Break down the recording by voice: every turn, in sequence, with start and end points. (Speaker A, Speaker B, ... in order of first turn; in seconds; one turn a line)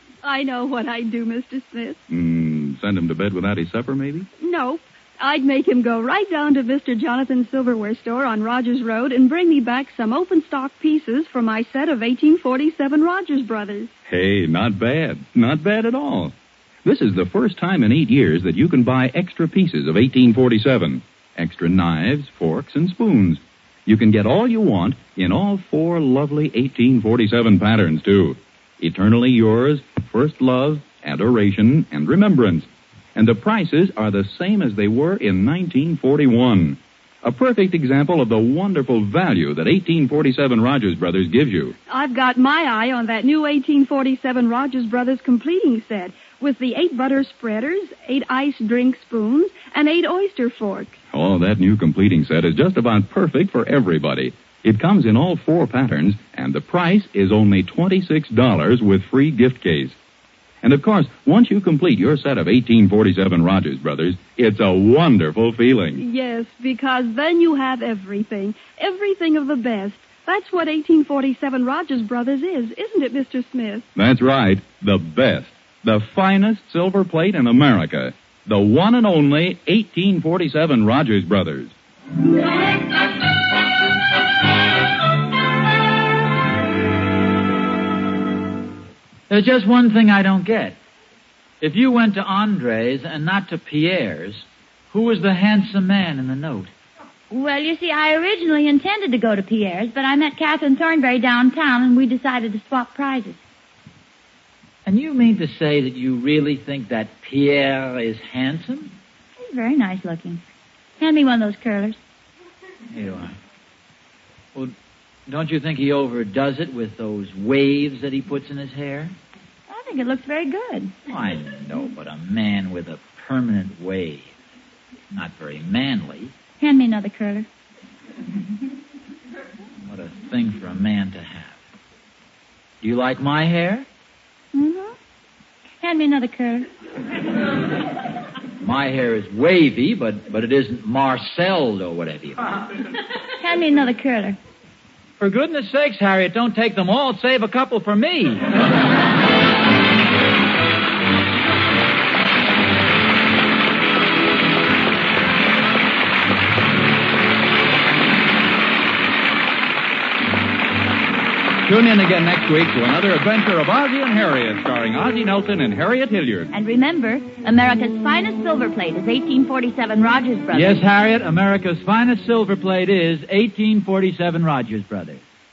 Speaker A: 0.2-2.0
Speaker B: 2.1-4.3
Speaker A: 4.4-13.9
Speaker B: 14.1-16.3
Speaker B: 16.8-41.8
Speaker A: 41.9-51.0
Speaker B: 51.1-59.9
Speaker B: 60.6-66.0
Speaker A: 66.0-73.8
Speaker B: 73.9-81.7
Speaker C: 89.3-90.8
Speaker C: 91.6-96.7
Speaker D: 97.3-103.4
Speaker C: 104.8-109.0
Speaker D: 109.4-110.4
Speaker D: 111.0-112.0
Speaker C: 112.9-113.3
Speaker C: 115.3-119.2
Speaker D: 119.7-120.9
Speaker C: 121.1-124.3
Speaker C: 125.1-126.3
Speaker D: 126.6-127.5
Speaker C: 129.8-131.6
Speaker C: 132.8-133.9
Speaker D: 134.5-134.9
Speaker D: 135.8-136.7
Speaker C: 138.6-142.6
Speaker D: 143.4-144.4
Speaker C: 145.2-148.4
Speaker B: 161.6-166.5
Speaker D: 166.5-170.8
Speaker C: 170.5-175.2